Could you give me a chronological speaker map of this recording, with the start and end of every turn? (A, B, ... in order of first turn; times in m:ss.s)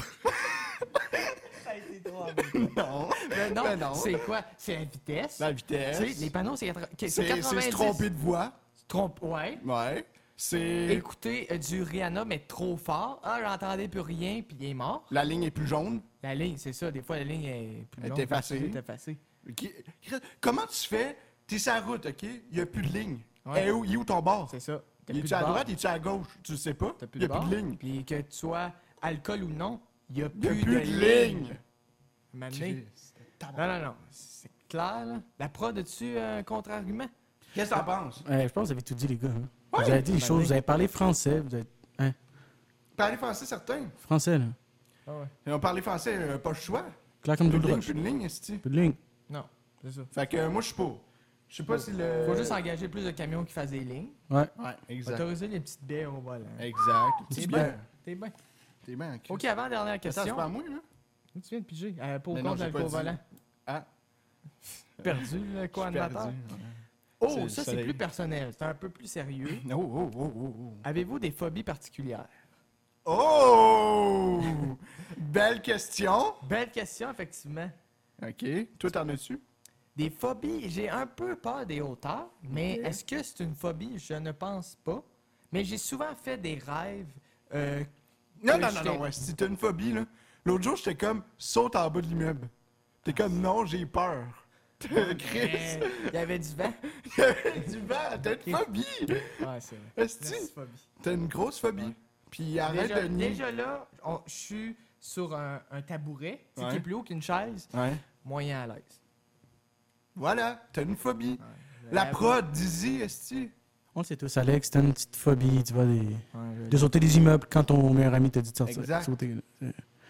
0:00.2-0:01.4 A
0:01.2-0:08.1 B
0:02.2-0:04.3 A
0:05.4-0:06.3 A
0:07.0-0:08.6 A
0:08.8-0:09.6 B
0:09.6-0:11.1 A
0:10.9-0:15.1 B
0:15.1-0:16.1 A
0:16.2-0:19.2 B
0:18.0-0:18.8 A
0:19.4-0:24.6 A
0:23.4-0:23.7 B
0:24.5-0:25.7 B
0:25.1-0:27.8 A
0:27.0-0:31.5 B
0:30.3-0:31.6 A
0:32.3-0:32.8 B
0:32.5-0:33.7 A
0:33.5-0:37.1 B
0:37.5-0:38.2 A
0:38.2-0:42.2 C
0:39.7-0:40.1 A
0:39.8-0:40.6 B
0:43.0-0:43.9 A
0:44.0-0:44.6 C
0:45.1-0:45.3 B
0:45.4-0:46.9 A
0:47.2-0:47.9 C
0:47.4-0:48.6 A
0:48.6-0:49.0 C
0:49.3-0:50.1 B
0:50.1-0:52.6 A
0:51.7-0:54.2 B
0:54.6-0:55.3 A
0:55.0-0:56.7 B
0:56.6-0:57.8 A
0:57.3-0:58.3 B
0:57.3-0:57.7 C
0:58.8-0:59.4 A
0:59.3-1:00.5 B
1:00.0-1:00.8 A
1:01.3-1:03.2 B
1:02.3-1:03.9 A
1:05.0-1:06.4 B
1:05.0-1:08.0 A
1:07.2-1:09.6 B
1:09.5-1:10.8 A
1:10.8-1:12.4 B
1:13.0-1:16.4 A
1:16.4-1:17.8 B
1:18.2-1:19.4 A
1:19.9-1:27.9 B
1:22.5-1:23.0 A
1:28.4-1:32.5 A
1:28.4-1:29.0 B
1:33.0-1:36.2 A
1:33.1-1:33.3 B
1:34.9-1:36.8 B
1:36.8-1:43.4 A
1:39.4-1:40.9 B
1:42.6-1:49.0 B
1:46.6-1:46.8 A
1:47.7-1:48.0 A
1:50.1-1:53.5 A
1:51.4-1:52.4 B
1:53.9-1:59.8 C
1:56.3-1:56.9 B
1:58.6-1:59.1 A